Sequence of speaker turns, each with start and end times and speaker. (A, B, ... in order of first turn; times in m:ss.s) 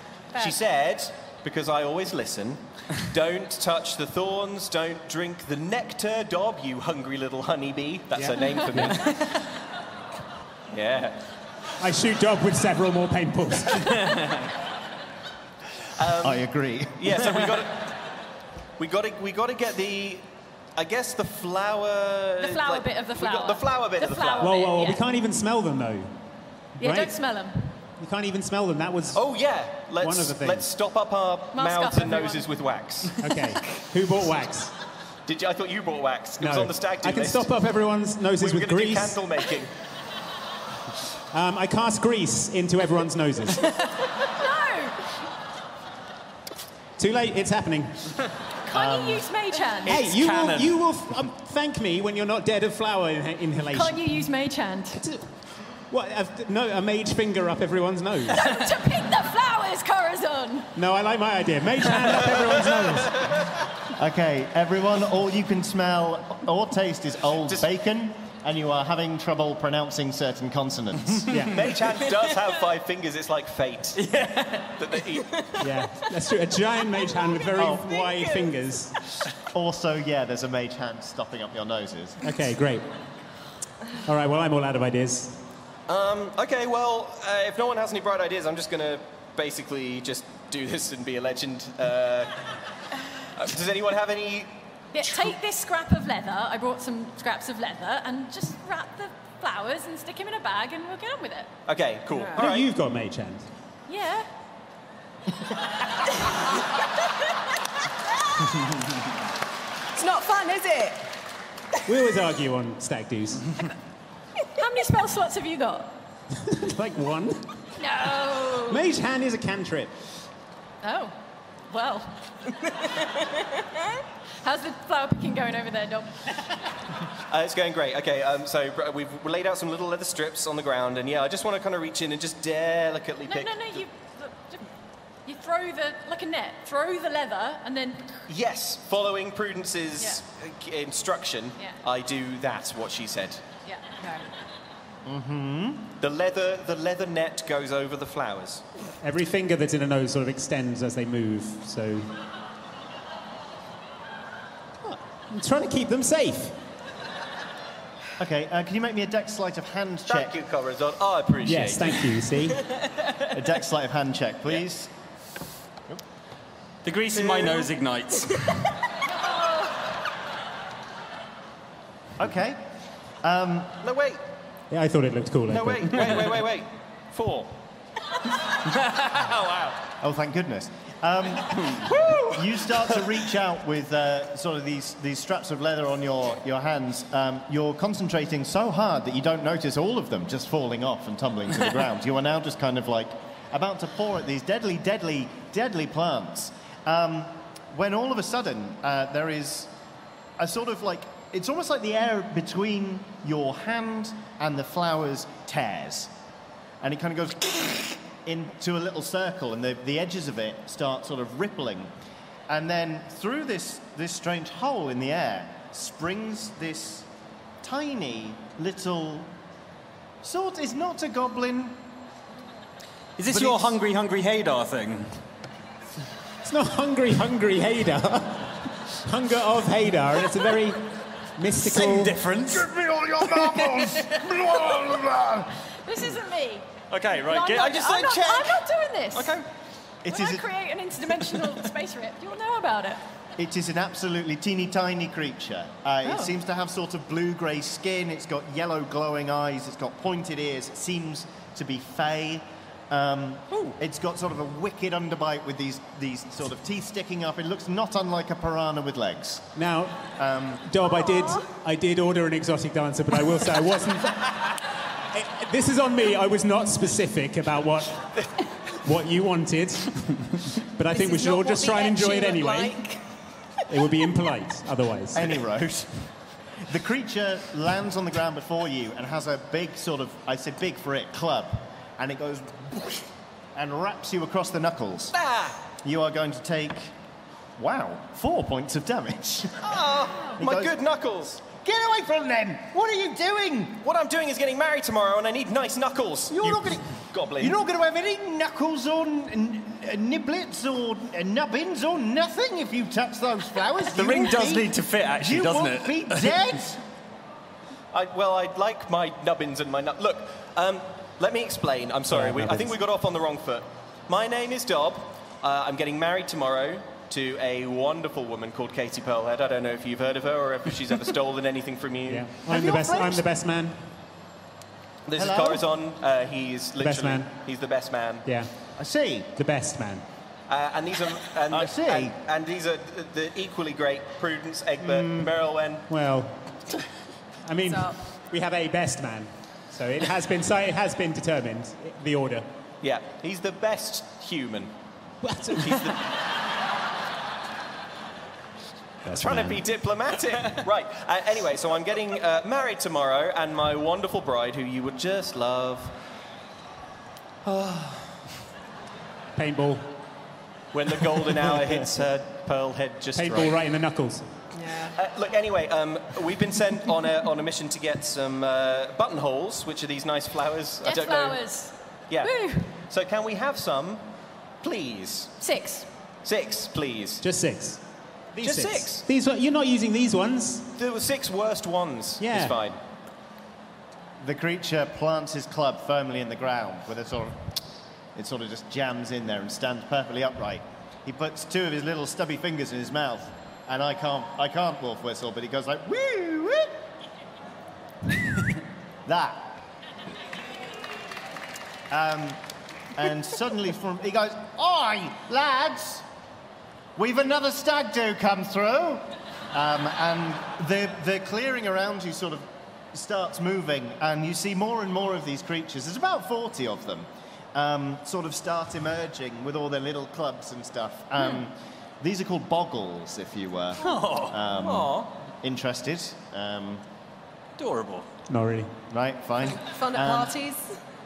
0:00.3-0:09.3 A
0:08.1-0:09.0 B
0:10.7-0:11.2 A
0:11.8-0:14.2 B
0:14.1-0:14.5 C
0:16.0-0:18.0 A
0:16.2-0:17.2 D
0:18.8-0:20.2 A
0:20.8-0:24.6 A
0:22.4-0:25.0 E
0:24.4-0:26.2 B
0:26.8-0:27.2 B
0:26.8-0:27.7 E
0:28.0-0:29.2 B
0:29.1-0:33.2 A
0:30.0-0:30.7 B
0:31.5-0:32.4 E
0:33.2-0:34.7 B
0:35.3-0:37.5 A
0:36.4-0:39.2 B
0:38.4-0:39.7 A
0:41.3-0:43.6 B
0:44.2-0:45.0 E
0:47.0-0:48.2 B
0:48.7-0:50.0 E
0:48.7-0:49.3 D
0:49.8-0:50.7 C
0:49.8-0:54.2 B
0:53.7-0:55.0 E
0:55.0-0:55.3 B
0:55.9-0:58.5 B
0:58.3-1:00.7 E
1:00.7-1:03.5 B
1:03.9-1:11.4 D
1:11.3-1:11.7 B
1:11.5-1:15.4 A
1:14.0-1:14.8 C
1:15.6-1:19.0 B
1:17.6-1:18.0 D
1:19.5-1:22.3 D
1:22.2-1:22.9 B
1:24.0-1:25.4 B
1:25.9-1:32.4 A
1:33.3-1:35.3 A
1:34.9-1:41.5 E
1:41.7-1:42.7 A
1:42.4-1:43.5 B
1:43.9-1:44.3 E
1:49.9-1:51.1 F
1:51.8-1:53.5 B
1:54.6-1:55.9 E
1:56.4-1:57.5 B
1:57.8-1:58.8 E
1:58.7-2:00.0 B
2:00.8-2:01.1 E
2:01.7-2:02.2 E
2:04.4-2:06.2 E
2:07.3-2:13.8 A
2:13.3-2:14.7 E
2:15.2-2:18.1 E
2:18.3-2:23.4 A
2:23.6-2:24.2 E
2:25.0-2:25.9 D
2:26.0-2:28.6 A
2:29.0-2:32.2 B
2:34.8-2:36.6 B
2:38.2-2:40.3 D
2:40.1-2:42.2 A
2:41.4-2:42.6 B
2:43.3-2:44.9 D
2:46.8-2:48.7 C
2:47.2-2:47.7 A
2:52.2-2:52.6 D
2:53.2-2:53.8 D
2:53.8-2:54.2 A
2:54.7-2:56.3 B
2:55.5-2:57.5 A
2:59.1-2:59.8 A
3:00.0-3:19.7 D
3:20.4-3:26.1 D
3:26.8-3:31.9 D
3:32.5-3:37.1 D
3:37.6-3:39.3 D
3:40.2-3:41.8 D
3:43.2-3:45.2 C
3:43.3-3:43.8 D
3:46.4-3:52.2 B
3:51.6-3:52.7 C
3:52.4-3:55.5 D
3:53.4-3:54.1 C
3:55.8-3:59.3 E
3:56.9-3:58.4 C
3:59.2-3:59.4 C
4:00.0-4:00.4 D
4:00.1-4:03.0 E
4:03.4-4:19.5 D
4:06.0-4:06.3 E
4:19.5-4:20.1 B
4:20.2-4:20.6 D
4:20.6-4:24.6 B
4:25.1-4:28.2 B
4:28.7-4:32.9 B
4:30.9-4:33.0 F
4:33.7-4:35.3 B
4:35.1-4:43.0 D
4:43.5-4:45.1 D
4:45.1-4:45.6 A
4:45.8-4:46.9 D
4:47.6-4:49.8 D
4:49.6-4:51.4 A
4:50.4-4:50.8 D
4:51.4-4:53.8 D
4:53.8-4:57.6 A
4:56.3-5:06.8 D
5:03.9-5:06.4 C
5:07.9-5:22.3 A
5:12.1-5:12.8 B
5:22.1-5:23.9 B
5:22.5-5:23.2 D
5:25.1-5:28.3 A
5:25.2-5:25.6 D
5:26.8-5:27.3 B
5:28.2-5:28.5 B
5:28.8-5:29.3 D
5:29.4-5:30.0 B
5:30.5-5:35.8 A
5:31.5-5:32.1 D
5:34.8-5:35.3 B
5:35.9-5:36.4 B
5:37.4-5:42.5 B
5:37.7-5:38.0 F
5:42.8-5:44.7 A
5:45.2-5:46.0 B
5:45.5-5:46.2 A
5:49.0-5:49.6 B
5:49.1-5:55.9 A
5:57.4-5:58.2 A
5:59.3-5:59.9 B
6:00.7-6:03.5 A
6:03.2-6:04.3 B
6:04.5-6:04.9 F
6:04.9-6:11.4 A
6:10.8-6:12.6 E
6:12.1-6:14.0 A
6:14.6-6:15.4 A
6:15.4-6:15.9 E
6:16.2-6:17.2 A
6:17.2-6:20.7 B
6:18.4-6:19.0 A
6:20.8-6:22.8 A
6:22.2-6:22.6 B
6:24.2-6:27.5 D
6:28.1-6:36.7 D
6:39.0-6:39.6 D
6:41.9-6:42.4 D
6:42.9-6:46.0 D
6:47.0-7:06.8 D
7:03.8-7:05.0 C
7:04.5-7:04.9 A
7:07.6-7:08.1 C
7:08.3-7:08.7 B
7:08.9-7:10.4 D
7:09.6-7:10.8 F